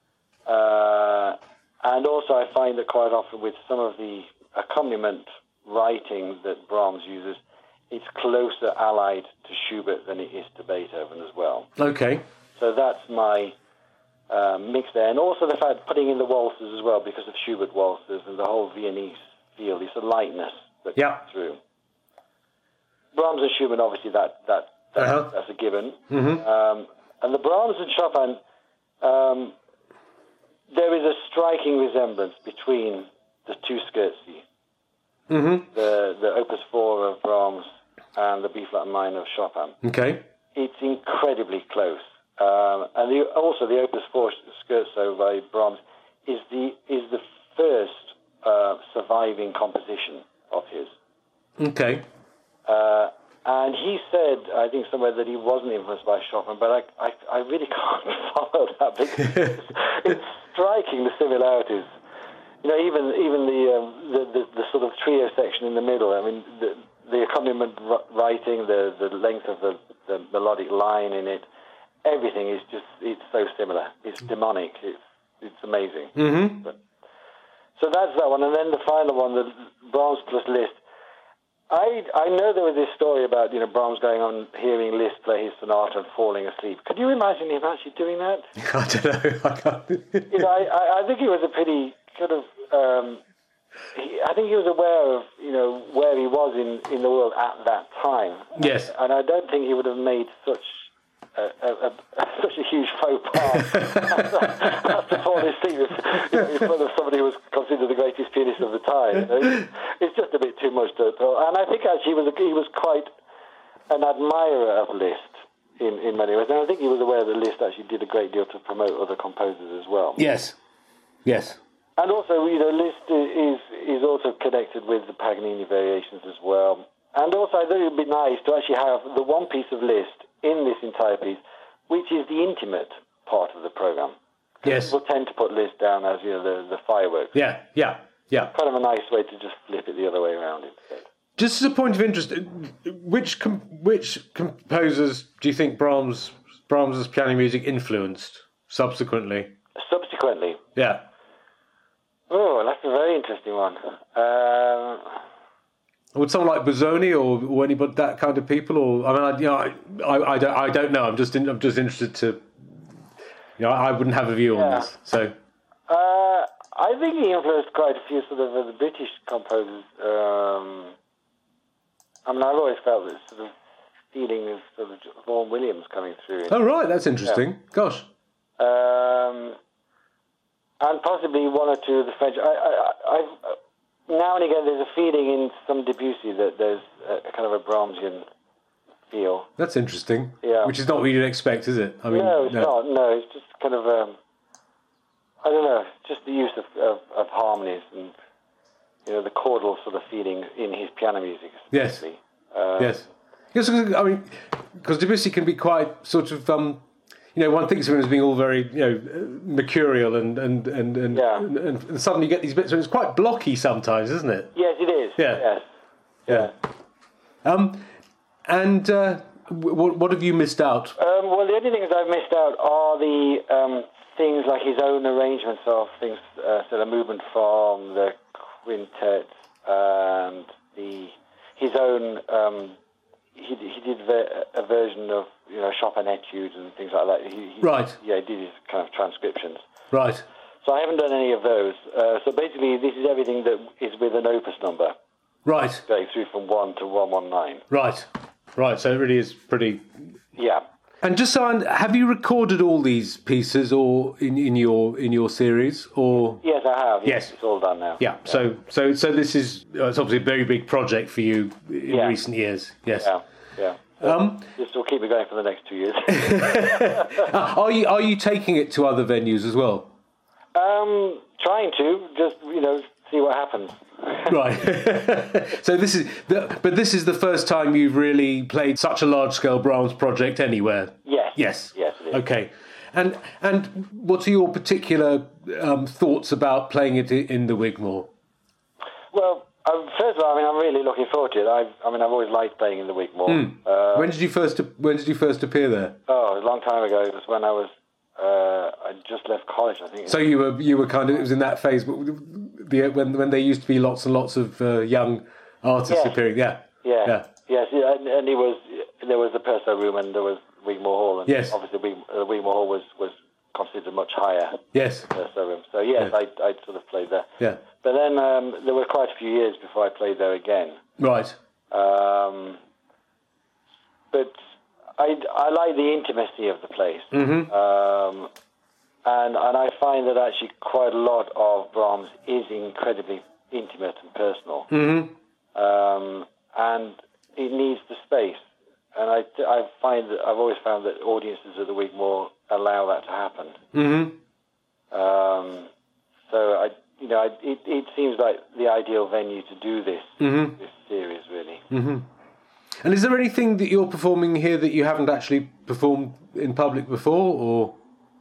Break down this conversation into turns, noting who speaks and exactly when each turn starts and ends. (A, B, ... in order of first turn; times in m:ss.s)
0:00.5-0:11.7 A
0:11.8-0:12.2 B
0:12.6-0:13.6 A
0:14.3-0:21.6 A
0:21.0-0:21.2 B
0:23.1-0:28.4 A
0:25.0-0:25.3 B
0:26.1-0:26.4 B
0:29.0-0:29.6 A
0:30.7-0:34.4 A
0:35.3-0:35.7 B
0:35.7-0:39.8 A
0:39.8-0:40.2 B
0:40.6-0:50.9 A
0:51.6-0:52.1 B
0:52.7-1:01.9 A
1:02.6-1:11.4 A
1:12.0-1:16.8 A
1:16.2-1:16.7 B
1:17.8-1:20.8 A
1:21.7-1:28.5 A
1:28.6-1:30.5 B
1:30.3-1:33.2 A
1:33.9-1:53.1 A
1:38.6-1:38.9 B
1:43.8-1:44.2 B
1:53.9-2:00.2 A
2:00.2-2:00.6 B
2:01.2-2:01.6 B
2:02.0-2:17.4 A
2:14.6-2:15.0 B
2:17.4-2:18.5 B
2:18.5-2:21.1 A
2:21.4-2:29.6 B
2:29.8-2:30.6 A
2:30.8-2:31.0 B
2:32.3-2:35.2 A
2:36.1-2:42.5 B
2:43.6-2:45.3 B
2:44.5-2:44.9 A
2:45.9-2:51.0 A
2:52.3-2:53.5 A
2:54.1-2:56.6 A
2:56.5-2:58.1 B
2:58.6-2:59.6 A
3:00.8-3:08.2 A
3:09.1-3:09.5 A
3:09.6-3:12.7 B
3:10.4-3:10.7 A
3:12.1-3:14.2 A
3:15.4-3:18.1 A
3:19.1-3:23.0 A
3:21.7-3:22.0 B
3:22.8-3:26.8 B
3:27.4-3:34.5 B
3:31.1-3:31.5 A
3:34.6-3:35.6 A
3:35.2-3:35.4 B
3:36.3-3:36.5 A
3:37.4-3:37.9 B
3:38.5-3:41.0 B
3:41.0-3:52.8 A
3:53.4-3:59.6 A
3:57.6-3:58.0 B
3:59.9-4:00.2 B
4:00.6-4:05.0 A
4:05.5-4:05.8 B
4:05.9-4:07.6 A
4:07.7-4:10.0 B
4:10.4-4:10.6 A
4:11.0-4:16.4 B
4:16.4-4:18.4 A
4:17.0-4:17.3 B
4:18.0-4:23.1 B
4:21.9-4:22.2 A
4:23.0-4:27.3 A
4:24.0-4:24.5 B
4:26.1-4:29.9 B
4:30.6-4:34.4 A
4:34.3-4:48.1 B
4:41.0-4:42.2 A
4:49.1-4:54.1 A
4:53.3-4:56.0 B
4:56.1-5:00.3 A
5:00.1-5:07.3 B
5:05.9-5:06.2 A
5:06.8-5:20.8 A
5:11.3-5:11.6 B
5:14.7-5:15.1 B
5:21.0-5:21.4 B
5:21.7-5:22.6 A
5:25.0-5:28.3 A
5:27.1-5:27.5 B
5:29.0-5:34.7 A
5:34.7-5:35.1 B
5:35.6-5:38.4 A
5:39.0-5:43.6 A
5:43.7-5:44.2 B
5:44.9-5:45.7 A
5:46.3-5:51.6 A
5:50.2-5:50.6 B
5:51.7-5:52.1 B
5:52.8-5:57.8 B